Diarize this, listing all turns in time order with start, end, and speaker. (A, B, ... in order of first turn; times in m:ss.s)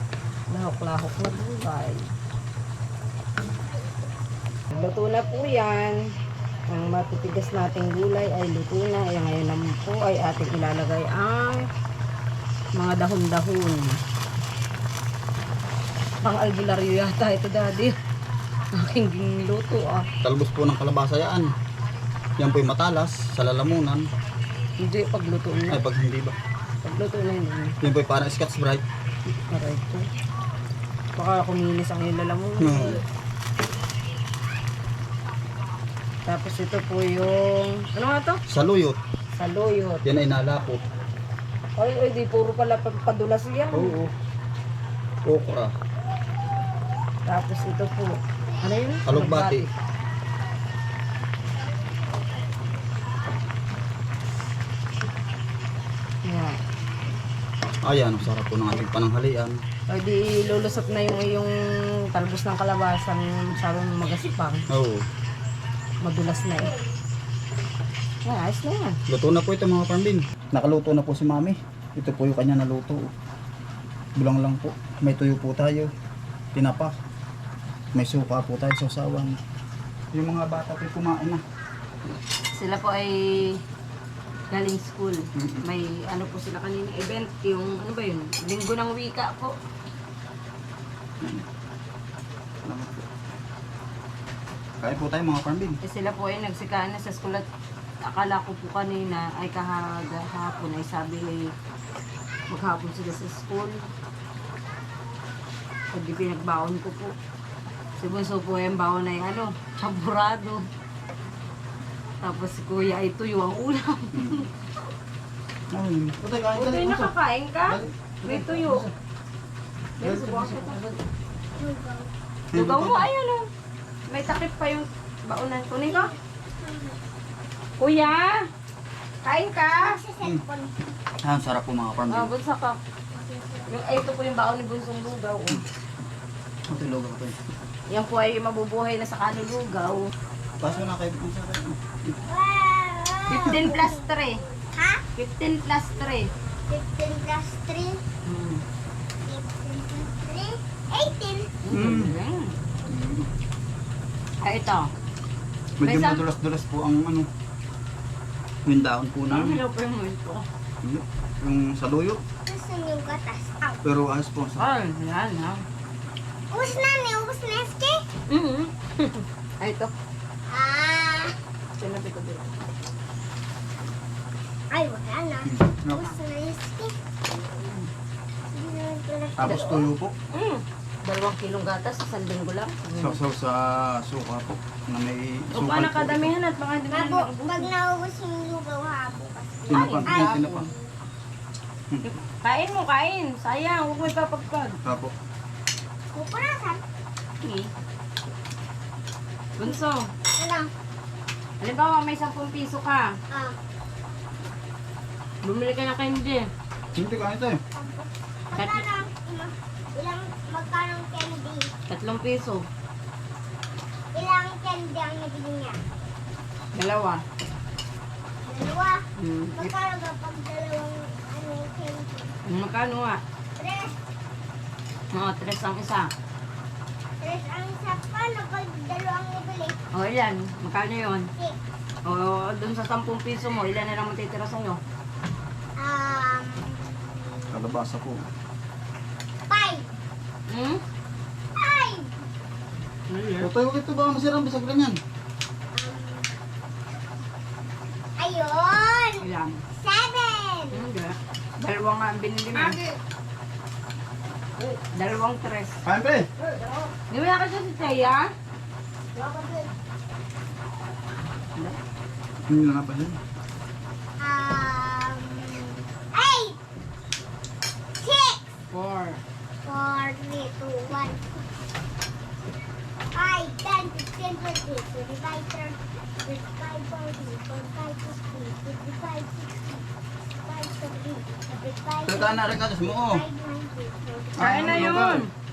0:00.5-0:02.1 A
0:04.7-0:06.0 A
0:06.7-0:11.7 A
0:12.8-0:14.0 A
0:16.2-0:18.0 A
0:18.8-0:20.1 A
0:20.2-0:21.5 B
0:22.4-0:24.1 B
0:24.8-0:25.8 A
0:25.7-0:26.4 B
0:26.8-0:27.8 A
0:27.8-0:28.8 B
0:29.4-0:30.1 A
0:31.2-0:33.0 A
0:32.6-0:33.0 B
0:36.2-0:38.4 A
0:38.5-0:39.0 B
0:39.3-0:40.0 A
0:40.0-0:40.8 B
0:41.8-0:44.0 A
0:43.7-0:44.1 B
0:45.2-0:45.7 B
0:47.3-0:49.7 A
0:49.1-0:49.7 B
0:56.2-0:56.6 A
0:57.8-0:59.6 B
0:59.9-1:04.7 A
1:04.7-1:05.1 B
1:06.0-1:06.7 A
1:08.2-1:09.0 A
1:09.1-1:13.1 B
1:14.2-1:15.9 B
1:16.5-1:17.0 B
1:18.0-1:19.4 B
1:20.1-1:21.4 B
1:22.5-1:23.6 A
1:24.5-1:29.6 A
1:25.4-1:25.6 B
1:31.2-1:31.5 B
1:32.6-1:33.1 B
1:34.8-1:35.8 B
1:35.8-1:37.5 A
1:38.0-1:41.5 A
1:42.5-1:43.8 A
1:45.9-1:47.2 A
1:48.0-1:50.7 A
1:52.2-1:54.5 A
1:54.1-1:54.5 B
1:55.7-1:57.1 B
1:56.5-1:58.9 A
1:57.7-1:58.9 B
2:00.0-2:00.9 A
2:00.0-2:00.8 B
2:01.6-2:02.1 C
2:02.5-2:03.1 B
2:02.5-2:03.5 A
2:04.1-2:06.1 A
2:05.9-2:07.0 C
2:07.8-2:08.4 A
2:09.2-2:10.0 A
2:09.7-2:10.8 C
2:11.2-2:12.3 B
2:12.1-2:12.8 A
2:13.1-2:13.7 C
2:13.7-2:15.6 A
2:16.7-2:17.4 B
2:17.9-2:20.1 A
2:20.6-2:22.2 B
2:22.3-2:25.0 C
2:23.3-2:24.4 A
2:25.2-2:26.3 A
2:26.7-2:28.0 C
2:28.2-2:28.6 A
2:29.2-2:31.6 C
2:31.6-2:32.5 A
2:31.7-2:32.2 B
2:32.9-2:33.3 B
2:34.4-2:34.9 A
2:35.8-2:37.3 B
2:35.8-2:36.3 A
2:38.6-2:39.6 B
2:39.3-2:40.5 A
2:40.8-2:42.2 B
2:42.5-2:43.8 C
2:43.8-2:44.7 B
2:44.6-2:45.6 A
2:46.5-2:48.0 C
2:48.3-2:49.9 A
2:50.5-2:51.4 C
2:51.8-2:52.5 A
2:54.7-2:57.0 C
2:55.4-2:56.1 B
2:57.5-2:57.9 A
2:58.5-2:59.9 C
2:59.4-3:00.2 B
2:59.4-2:59.8 A
3:00.3-3:03.2 A
3:03.0-3:06.3 B
3:05.5-3:07.7 A
3:06.9-3:10.9 C
3:09.7-3:10.7 A
3:09.7-3:10.7 B
3:12.0-3:14.8 A
3:14.8-3:15.1 B
3:16.1-3:16.8 C
3:17.4-3:17.7 A
3:19.6-3:20.1 A
3:20.3-3:20.7 C
3:21.6-3:23.1 A
3:23.3-3:23.6 C
3:25.4-3:26.5 A
3:27.0-3:27.6 B
3:27.7-3:31.7 C
3:28.6-3:28.9 A
3:31.9-3:32.7 A
3:34.1-3:35.8 C
3:36.8-3:37.2 A
3:38.4-3:42.3 C
3:39.2-3:39.7 A
3:42.4-3:43.2 A
3:43.6-3:44.0 C
3:45.1-3:46.1 A
3:47.2-3:49.8 C
3:49.9-3:51.3 A
3:52.0-3:54.8 A
3:55.8-3:57.5 C
3:57.5-3:58.2 B
3:59.5-4:00.0 C
4:00.5-4:00.8 A
4:01.6-4:02.2 C
4:03.1-4:03.5 A
4:03.4-4:05.0 B
4:05.8-4:06.3 C
4:08.2-4:10.8 C
4:09.2-4:09.6 A
4:10.7-4:12.8 A
4:14.6-4:15.8 A
4:15.8-4:16.3 B
4:16.5-4:18.3 A
4:19.2-4:19.7 A
4:22.5-4:23.2 B
4:24.2-4:26.6 C
4:28.0-4:28.5 C
4:28.7-4:29.2 A
4:29.6-4:31.5 C
4:33.1-4:39.9 C
4:40.4-4:45.1 C
4:42.0-4:43.2 B
4:44.4-4:45.2 B
4:44.4-4:45.3 A